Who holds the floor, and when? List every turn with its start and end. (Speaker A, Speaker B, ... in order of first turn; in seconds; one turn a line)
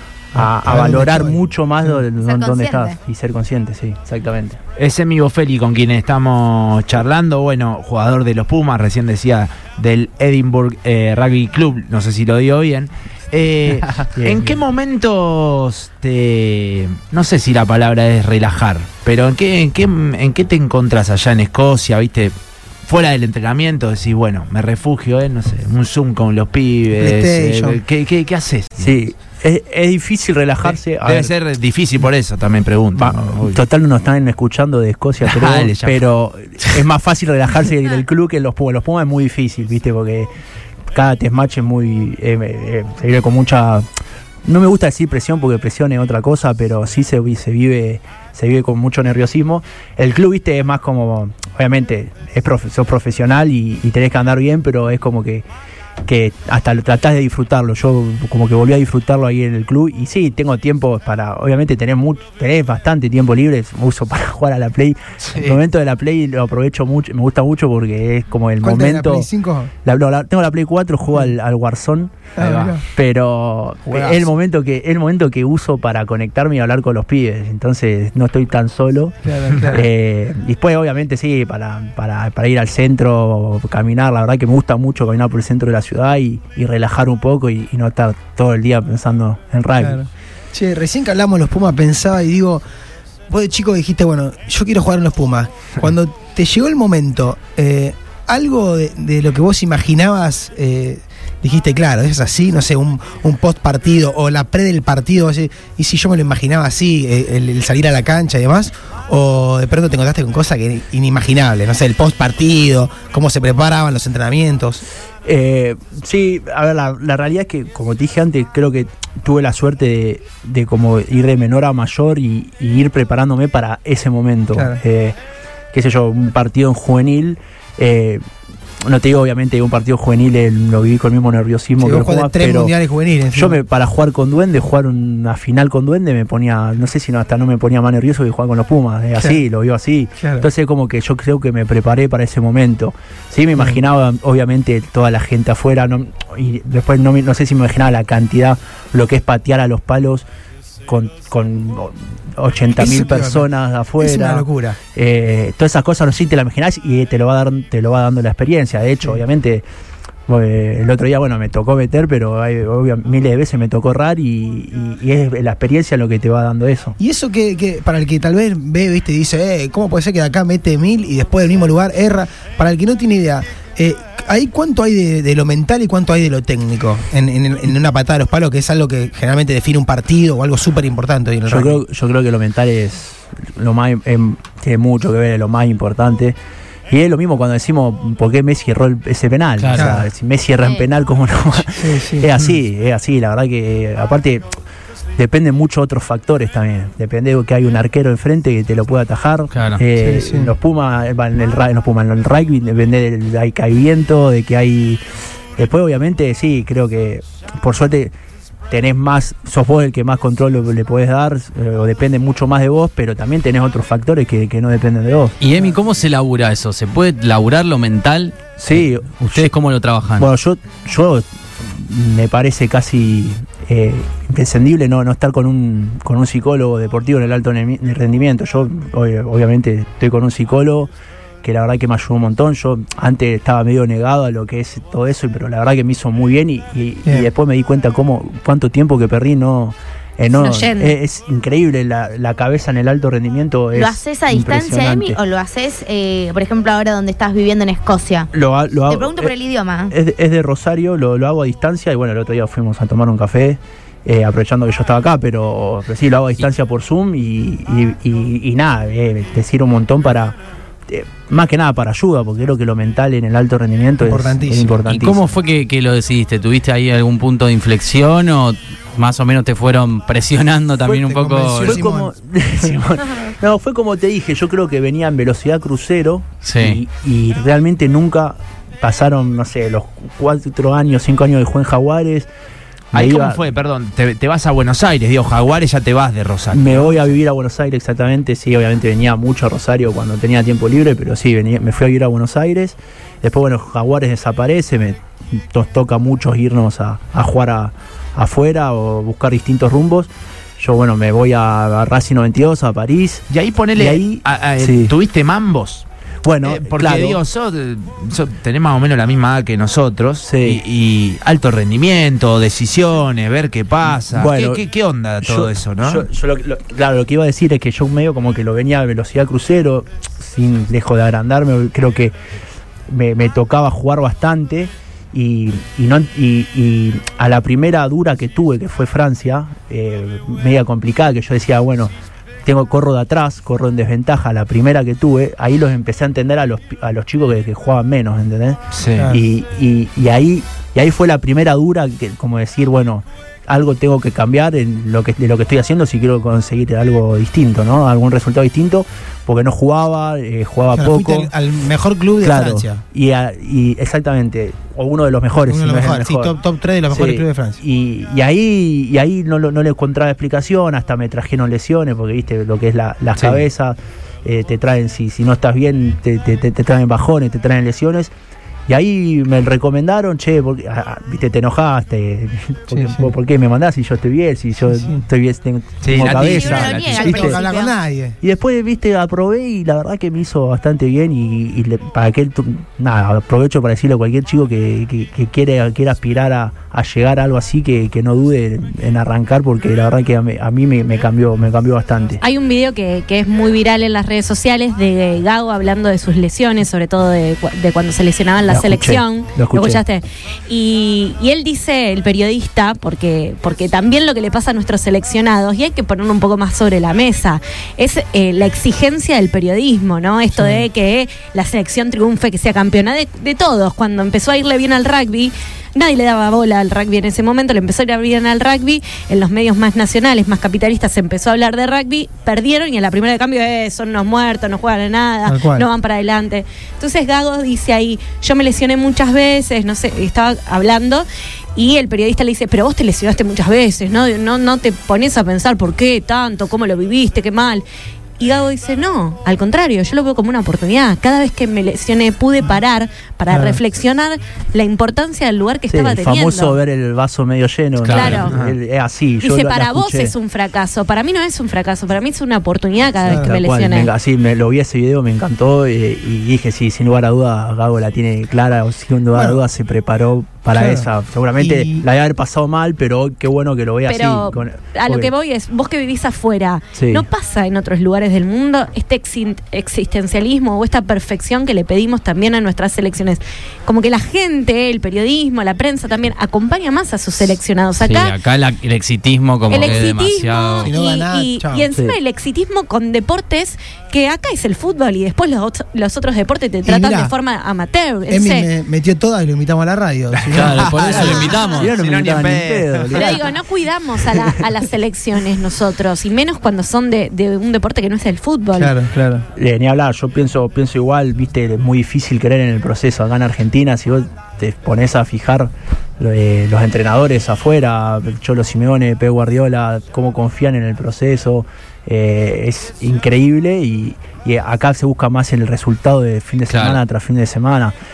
Speaker A: 0.3-4.6
Speaker B: 0.4-2.0
Speaker C: 2.2-3.0
Speaker D: 4.8-22.3
Speaker A: 14.1-14.6
Speaker D: 22.9-28.9
Speaker B: 27.0-27.8
Speaker A: 28.8-31.3
Speaker D: 30.6-33.6
Speaker A: 33.0-40.3
Speaker D: 35.2-36.0
Speaker A: 40.9-43.9
Speaker A: 44.5-55.4
Speaker A: 56.1-69.3
Speaker D: 65.3-65.6
Speaker B: 68.6-69.7
Speaker A: 69.8-90.0
Speaker B: 72.4-72.8
Speaker D: 72.4-72.7
Speaker B: 73.9-74.2
Speaker B: 79.2-79.8
Speaker B: 89.8-92.6
Speaker B: 93.3-114.8
Speaker A: 115.3-125.2
Speaker B: 124.5-124.8
Speaker A: 125.7-128.2
Speaker A: 128.8-132.7
Speaker B: 131.8-133.6
Speaker A: 133.3-150.2
Speaker B: 140.2-140.5
Speaker A: 150.9-159.6
Speaker B: 152.8-154.8
Speaker A: 160.3-167.0
Speaker B: 167.0-181.8
Speaker A: 181.5-186.4
Speaker A: 186.9-194.5
Speaker E: 189.6-190.0
Speaker B: 189.7-190.0
Speaker B: 191.7-192.3
Speaker A: 195.2-205.0
Speaker E: 199.5-199.8
Speaker B: 200.0-200.5
Speaker A: 205.6-208.1
Speaker A: 208.7-215.4
Speaker E: 215.4-220.3
Speaker A: 218.6-219.5
Speaker A: 220.2-230.9
Speaker A: 231.4-245.2
Speaker F: 240.3-241.0
Speaker C: 243.7-248.3
Speaker A: 248.3-249.3
Speaker C: 248.9-249.9
Speaker A: 249.9-260.4
Speaker A: 260.9-265.3
Speaker B: 264.0-264.9
Speaker E: 264.9-271.8
Speaker A: 270.8-282.3
Speaker B: 271.1-272.1
Speaker E: 276.4-276.8
Speaker A: 282.9-283.5
Speaker D: 282.9-287.1
Speaker A: 286.5-303.2
Speaker D: 303.3-305.9
Speaker A: 303.8-304.9
Speaker A: 306.2-307.2
Speaker D: 306.4-316.1
Speaker A: 310.2-310.6
Speaker A: 314.1-314.6
Speaker A: 315.2-322.1
Speaker A: 322.9-331.9
Speaker A: 332.4-351.3
Speaker D: 338.7-339.1
Speaker B: 339.0-339.2
Speaker B: 350.7-352.8
Speaker A: 352.2-356.4
Speaker B: 355.5-357.6
Speaker A: 356.9-368.1
Speaker A: 368.7-377.4
Speaker B: 372.7-373.1
Speaker B: 374.7-375.0
Speaker D: 375.8-377.0
Speaker C: 376.0-377.7
Speaker B: 377.0-378.2
Speaker A: 378.2-392.2
Speaker F: 392.2-431.1
Speaker A: 398.5-399.8
Speaker B: 410.3-410.7
Speaker B: 425.2-425.7
Speaker F: 431.6-437.6
Speaker F: 438.2-446.6
Speaker B: 443.3-443.6
Speaker A: 445.7-450.1
Speaker E: 447.9-448.2
Speaker F: 447.9-448.4
Speaker D: 447.9-448.6
Speaker F: 449.2-453.9
Speaker B: 453.0-453.3
Speaker A: 453.1-465.1
Speaker B: 459.1-459.4
Speaker B: 460.5-461.9
Speaker F: 463.9-478.2
Speaker A: 466.8-467.1
Speaker E: 477.8-480.7
Speaker F: 479.5-488.5
Speaker B: 480.6-481.7
Speaker B: 486.6-487.1
Speaker B: 488.1-490.7
Speaker D: 490.1-493.2
Speaker E: 490.3-491.8
Speaker A: 490.7-493.3
Speaker F: 490.9-491.6
Speaker F: 492.9-498.8
Speaker B: 498.6-499.3
Speaker A: 499.4-517.7
Speaker E: 516.5-516.8